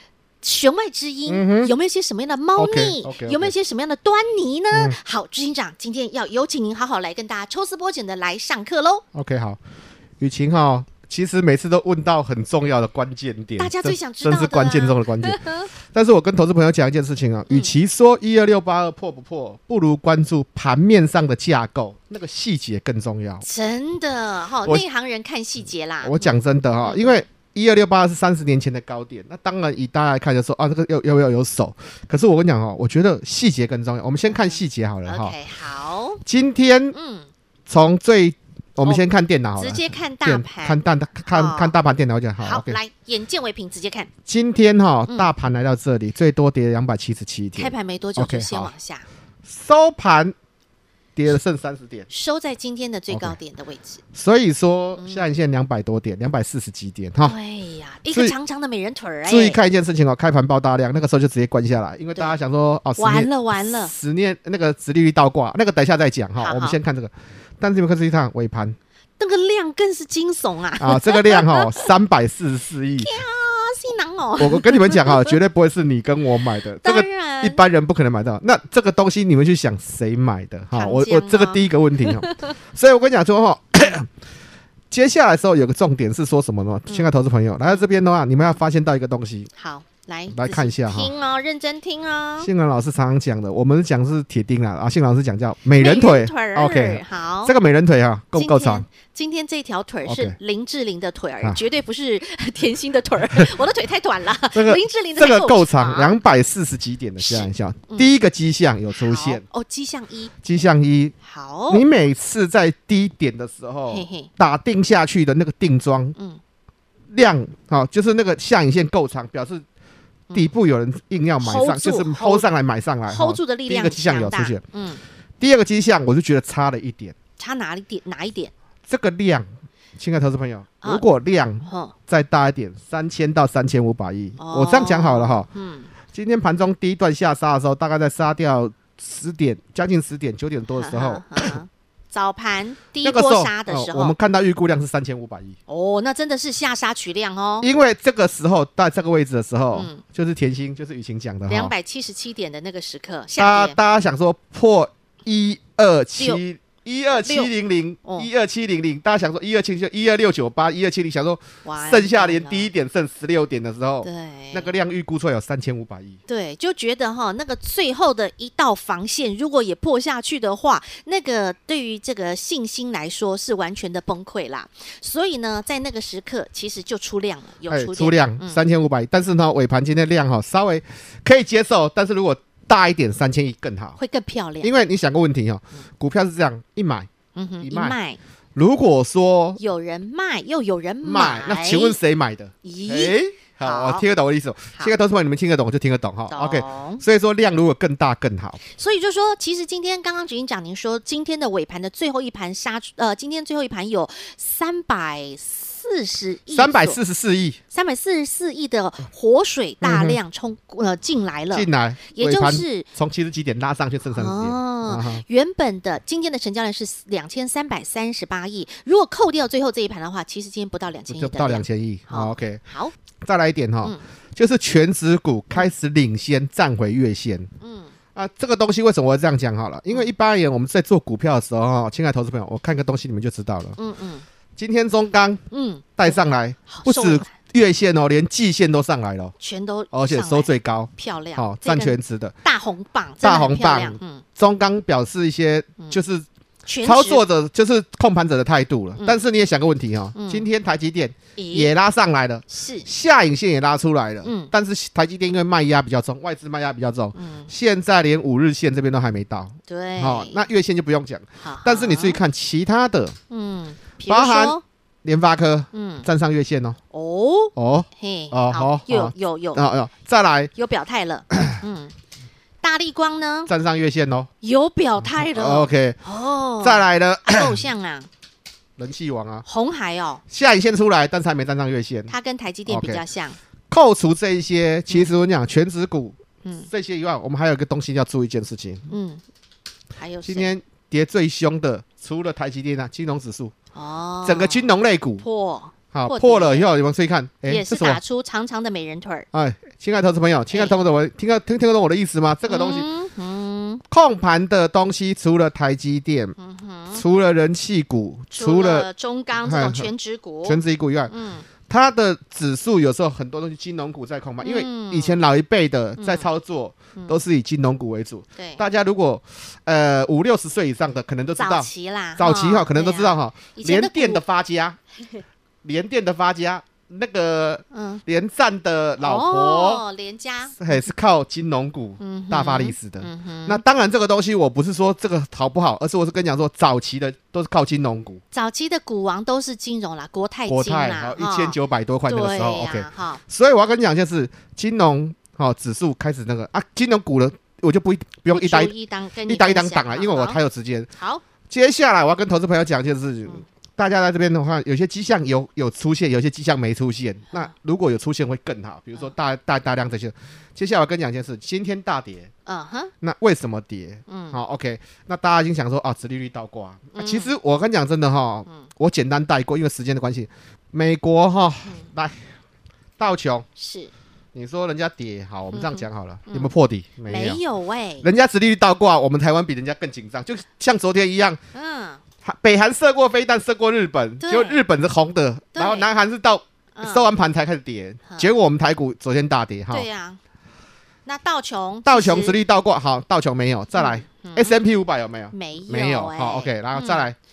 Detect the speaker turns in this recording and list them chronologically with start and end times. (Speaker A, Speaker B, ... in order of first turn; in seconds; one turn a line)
Speaker A: 0.4-9.0
Speaker B: 1.3-1.7
Speaker B: 2.6-3.5
Speaker B: 4.7-5.0
Speaker B: 9.1-9.6
Speaker B: 10.2-23.4
Speaker A: 13.6-15.7
Speaker A: 23.4-27.2
Speaker B: 26.0-35.4
Speaker A: 34.3-36.2
Speaker B: 36.2-36.9
Speaker A: 36.9-37.3
Speaker B: 37.7-42.8
Speaker A: 39.5-41.8
Speaker A: 42.4-44.1
Speaker B: 44.2-48.7
Speaker A: 47.5-49.0
Speaker B: 49.4-50.3
Speaker B: 51.1-52.1
Speaker A: 52.1-54.0
Speaker B: 53.1-53.4
Speaker B: 54.1-57.4
Speaker A: 55.0-55.2
Speaker A: 57.2-59.6
Speaker B: 59.2-68.8
Speaker A: 63.0-63.9
Speaker A: 66.4-66.8
Speaker A: 69.2-71.9
Speaker B: 70.8-73.2
Speaker A: 73.0-75.3
Speaker B: 74.4-84.1
Speaker A: 76.8-77.6
Speaker A: 80.7-82.5
Speaker B: 84.9-89.5
Speaker A: 89.5-92.5
Speaker B: 90.3-91.1
Speaker B: 92.4-98.8
Speaker A: 95.8-97.5
Speaker A: 98.3-106.1
Speaker B: 100.0-100.3
Speaker B: 104.5-109.4
Speaker A: 107.2-108.1
Speaker A: 108.9-110.3
Speaker B: 110.4-111.1
Speaker A: 111.2-111.8
Speaker B: 111.7-116.1
Speaker A: 113.9-114.3
Speaker B: 117.1-119.6
Speaker B: 120.3-124.6
Speaker A: 121.4-122.4
Speaker A: 123.1-125.0
Speaker B: 125.4-127.2
Speaker A: 127.4-128.5
Speaker B: 128.9-135.5
Speaker A: 131.6-131.9
Speaker A: 134.4-135.9
Speaker B: 136.1-141.5
Speaker A: 140.7-144.1
Speaker B: 143.0-145.6
Speaker A: 145.7-147.7
Speaker B: 147.6-151.7
Speaker A: 149.7-150.0
Speaker A: 151.5-153.8
Speaker B: 153.3-166.2
Speaker A: 157.1-157.5
Speaker A: 158.0-158.3
Speaker A: 161.6-162.7
Speaker A: 164.0-164.7
Speaker A: 166.3-178.6
Speaker B: 177.7-184.0
Speaker A: 184.0-184.8
Speaker B: 184.6-187.1
Speaker A: 187.3-188.2
Speaker B: 187.6-187.9
Speaker B: 188.5-189.6
Speaker A: 189.6-192.0
Speaker B: 191.0-198.6
Speaker A: 192.6-194.0
Speaker A: 196.3-197.0
Speaker A: 198.7-207.0
Speaker B: 206.5-207.6
Speaker A: 207.7-212.8
Speaker B: 209.8-210.2
Speaker B: 211.5-215.2
Speaker A: 214.1-222.9
Speaker B: 221.1-222.6
Speaker B: 223.2-227.5
Speaker A: 227.6-227.9
Speaker B: 228.1-233.8
Speaker A: 233.8-234.2
Speaker B: 234.6-235.4
Speaker A: 235.5-237.3
Speaker B: 236.0-239.3
Speaker A: 239.4-244.2
Speaker B: 239.9-242.3
Speaker B: 243.2-246.2
Speaker A: 246.7-247.2
Speaker B: 246.8-263.2
Speaker A: 250.1-250.4
Speaker A: 251.4-251.7
Speaker A: 252.5-252.9
Speaker A: 254.2-254.5
Speaker A: 257.1-257.5
Speaker A: 259.7-260.5
Speaker A: 261.4-262.2
Speaker A: 263.3-264.6
Speaker B: 264.1-266.8
Speaker A: 265.7-266.1
Speaker A: 266.9-269.6
Speaker B: 267.6-270.5
Speaker A: 270.5-271.9
Speaker A: 272.6-273.5
Speaker B: 273.5-274.3
Speaker A: 274.4-278.1
Speaker B: 275.1-276.0
Speaker B: 276.6-277.6
Speaker B: 278.8-279.4
Speaker A: 279.4-280.2
Speaker B: 280.3-282.1
Speaker A: 282.1-283.4
Speaker B: 282.7-283.0
Speaker B: 283.7-286.2
Speaker A: 286.4-286.7
Speaker B: 286.7-288.9
Speaker A: 288.9-289.2
Speaker A: 290.0-290.5
Speaker B: 290.2-293.5
Speaker A: 293.7-296.7
Speaker B: 294.2-295.2
Speaker B: 295.9-298.0
Speaker A: 297.4-299.3
Speaker B: 299.3-302.9
Speaker A: 300.5-300.8
Speaker A: 302.4-303.8
Speaker B: 303.9-306.3
Speaker A: 306.4-307.0
Speaker B: 306.9-308.9
Speaker A: 308.3-311.5
Speaker B: 309.4-309.9
Speaker B: 310.4-311.1
Speaker B: 311.6-324.8
Speaker A: 314.4-315.2
Speaker A: 316.0-316.3
Speaker A: 316.9-317.2
Speaker A: 321.4-324.2
Speaker B: 325.6-329.8
Speaker A: 327.7-328.0
Speaker A: 329.0-330.7
Speaker B: 330.6-338.2
Speaker A: 332.0-333.6
Speaker A: 338.3-341.6
Speaker B: 340.5-348.7
Speaker A: 342.1-343.2
Speaker A: 348.3-350.4
Speaker B: 349.2-350.9
Speaker A: 350.9-351.2
Speaker B: 351.5-362.3
Speaker A: 362.4-362.9
Speaker B: 363.0-372.2
Speaker A: 364.1-364.4
Speaker A: 366.9-367.3
Speaker B: 373.0-373.4
Speaker A: 373.6-373.9
Speaker B: 374.3-377.4
Speaker A: 375.5-376.5
Speaker A: 377.1-378.1
Speaker B: 378.0-381.4
Speaker A: 381.5-382.0
Speaker B: 382.2-389.9
Speaker A: 384.2-384.6
Speaker A: 385.5-385.9
Speaker A: 386.7-387.1
Speaker A: 389.7-390.2
Speaker A: 391.1-392.4
Speaker B: 391.9-397.1
Speaker A: 393.7-394.6
Speaker A: 395.3-397.1